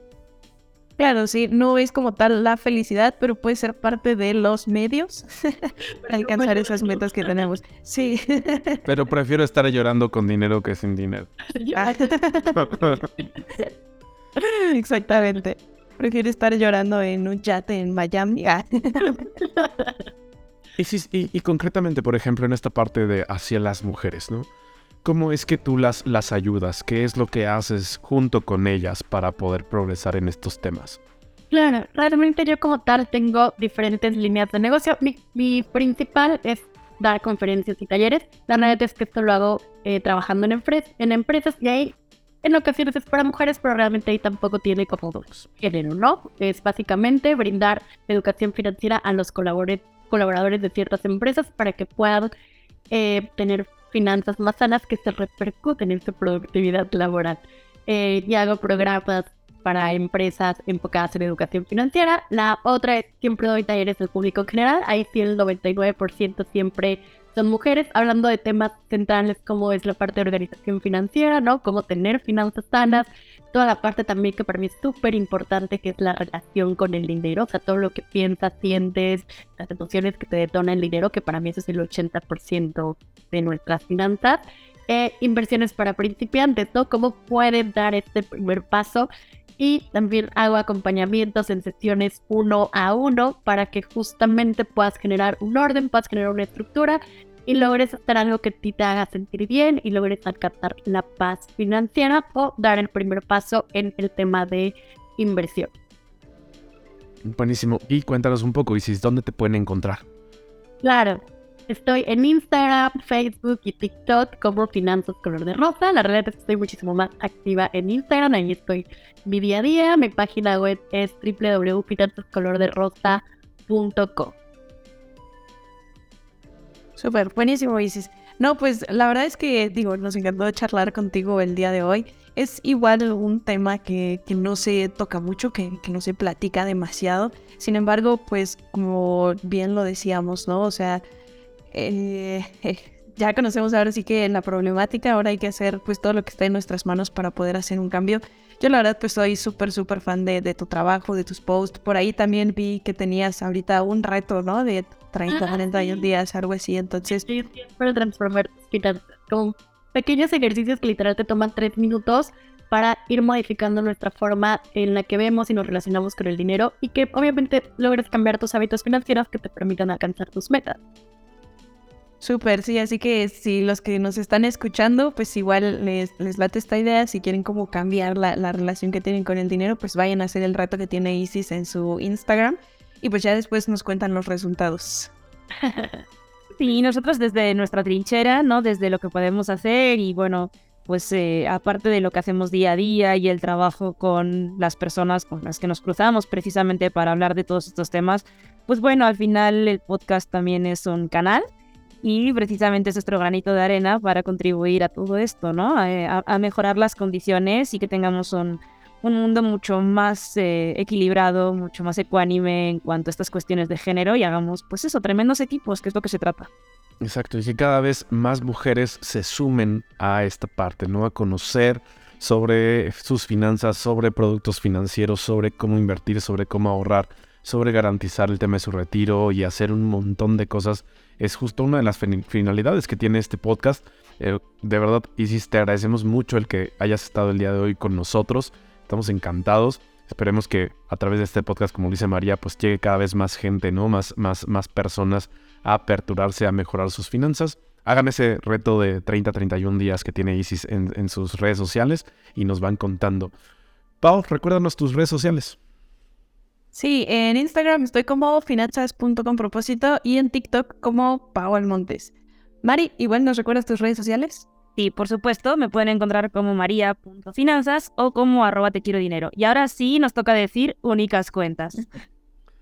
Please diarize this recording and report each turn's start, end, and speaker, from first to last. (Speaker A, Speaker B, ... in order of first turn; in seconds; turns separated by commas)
Speaker A: 1.0-8.8, Speaker B: 8.8-11.3, Speaker A: 11.7-12.6, Speaker B: 12.6-13.0, Speaker A: 14.3-19.3, Speaker B: 20.8-24.5, Speaker B: 25.0-31.0, Speaker C: 31.5-52.3, Speaker C: 52.9-105.7, Speaker B: 107.2-110.0, Speaker C: 110.8-124.3, Speaker A: 127.0-141.0, Speaker A: 141.7-157.2, Speaker C: 155.3-156.1, Speaker C: 157.1-170.8, Speaker A: 172.2-185.1, Speaker C: 185.6-186.0, Speaker D: 186.6-201.4, Speaker D: 202.0-216.5, Speaker B: 217.0-253.3, Speaker B: 254.0-255.6, Speaker A: 256.7-262.1, Speaker A: 262.6-264.4, Speaker D: 264.8-271.8